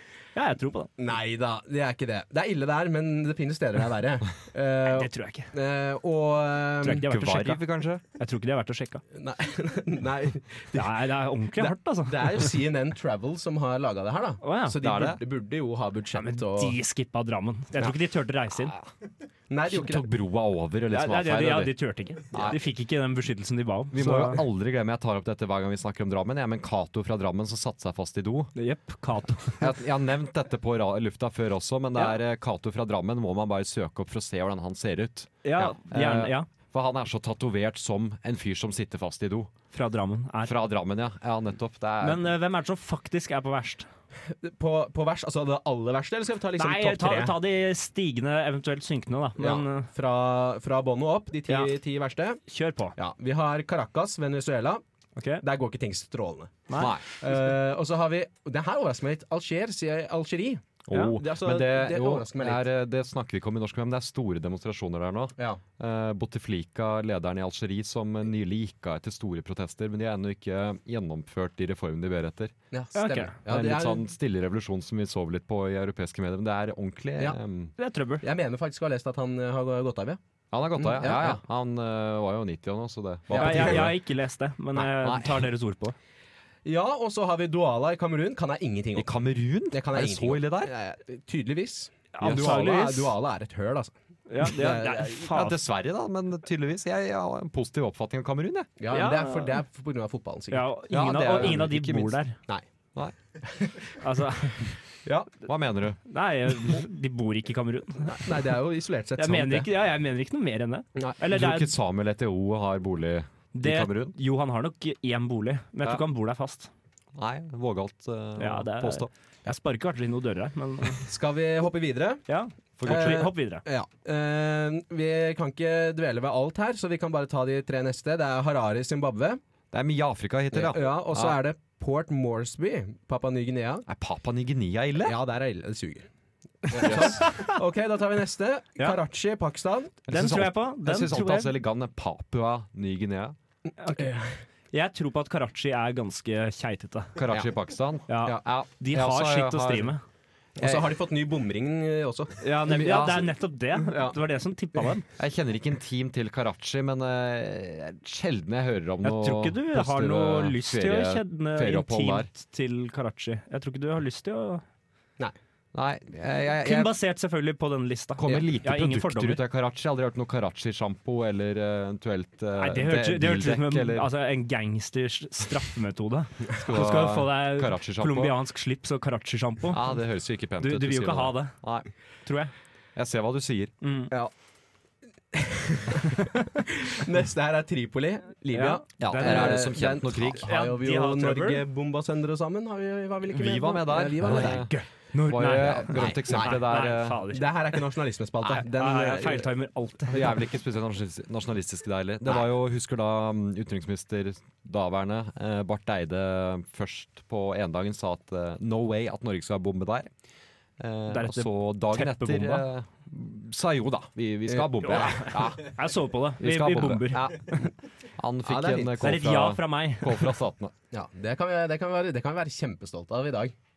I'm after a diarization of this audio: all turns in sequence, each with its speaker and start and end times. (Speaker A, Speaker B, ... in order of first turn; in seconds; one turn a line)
Speaker A: 0.3-0.9
Speaker B: 1.0-7.1
Speaker A: 4.8-5.5
Speaker A: 6.8-9.0
Speaker C: 7.0-8.0
Speaker B: 9.1-16.8
Speaker A: 10.7-12.6
Speaker A: 14.4-14.8
Speaker C: 14.8-15.2
Speaker A: 16.1-18.7
Speaker C: 18.6-18.8
Speaker B: 19.5-20.1
Speaker C: 19.7-22.6
Speaker A: 20.9-24.4
Speaker C: 23.9-28.5
Speaker A: 28.5-29.7
Speaker C: 29.6-39.5
Speaker A: 35.4-36.5
Speaker A: 39.7-40.5
Speaker C: 40.4-42.3
Speaker A: 42.0-43.9
Speaker B: 44.4-47.4
Speaker A: 46.6-49.9
Speaker B: 49.4-52.4
Speaker A: 51.5-51.7
Speaker A: 52.5-53.0
Speaker B: 53.0-54.8
Speaker A: 55.1-55.4
Speaker B: 55.4-62.6
Speaker A: 56.7-56.9
Speaker C: 56.7-57.1
Speaker C: 60.9-72.5
Speaker A: 60.9-61.2
Speaker B: 72.7-74.0
Speaker A: 72.9-73.3
Speaker C: 73.4-77.7
Speaker A: 77.8-78.2
Speaker B: 78.2-80.2
Speaker C: 80.5-84.0
Speaker B: 80.8-81.4
Speaker B: 83.3-83.9
Speaker A: 83.3-86.0
Speaker C: 84.7-85.5
Speaker B: 86.6-89.1
Speaker C: 88.9-90.7
Speaker B: 89.7-95.1
Speaker A: 92.1-93.1
Speaker C: 92.2-93.0
Speaker A: 94.3-95.6
Speaker C: 94.7-98.7
Speaker B: 98.8-100.7
Speaker A: 98.9-99.5
Speaker A: 100.5-102.4
Speaker C: 100.9-102.2
Speaker B: 103.5-103.9
Speaker A: 104.0-104.7
Speaker C: 105.2-106.0
Speaker A: 106.1-108.5
Speaker B: 108.0-109.7
Speaker A: 109.2-111.7
Speaker C: 111.3-114.2
Speaker A: 113.5-116.7
Speaker C: 117.2-119.1
Speaker A: 118.4-121.1
Speaker B: 121.0-122.2
Speaker A: 122.3-123.6
Speaker C: 122.8-123.3
Speaker B: 122.8-129.4
Speaker C: 129.7-131.4
Speaker B: 130.5-133.8
Speaker C: 133.9-135.2
Speaker B: 135.0-136.1
Speaker B: 136.6-140.0
Speaker C: 136.8-137.2
Speaker A: 136.8-137.5
Speaker C: 140.1-143.3
Speaker A: 140.1-141.5
Speaker A: 143.8-144.1
Speaker B: 143.8-144.3
Speaker A: 144.7-147.2
Speaker C: 147.2-149.9
Speaker A: 148.1-150.0
Speaker B: 150.6-152.4
Speaker C: 150.6-150.8
Speaker A: 152.4-155.1
Speaker C: 152.7-153.3
Speaker B: 153.8-154.2
Speaker C: 155.2-162.3
Speaker A: 159.0-164.6
Speaker C: 165.7-166.9
Speaker A: 166.6-169.4
Speaker C: 168.2-174.1
Speaker A: 172.6-179.8
Speaker C: 176.5-178.4
Speaker C: 179.7-181.9
Speaker A: 180.6-181.7
Speaker A: 182.2-182.5
Speaker C: 182.9-183.7
Speaker A: 183.8-184.1
Speaker B: 185.3-194.7
Speaker A: 188.5-191.6
Speaker C: 189.0-190.5
Speaker C: 193.3-197.2
Speaker A: 194.2-197.8
Speaker B: 195.9-196.7
Speaker B: 197.3-199.5
Speaker A: 198.4-200.4
Speaker C: 200.1-210.1
Speaker C: 210.8-215.8
Speaker A: 211.1-212.7
Speaker B: 214.5-215.3
Speaker A: 214.8-217.6
Speaker C: 216.4-220.7
Speaker B: 218.4-219.0
Speaker A: 219.0-220.3
Speaker B: 220.9-223.5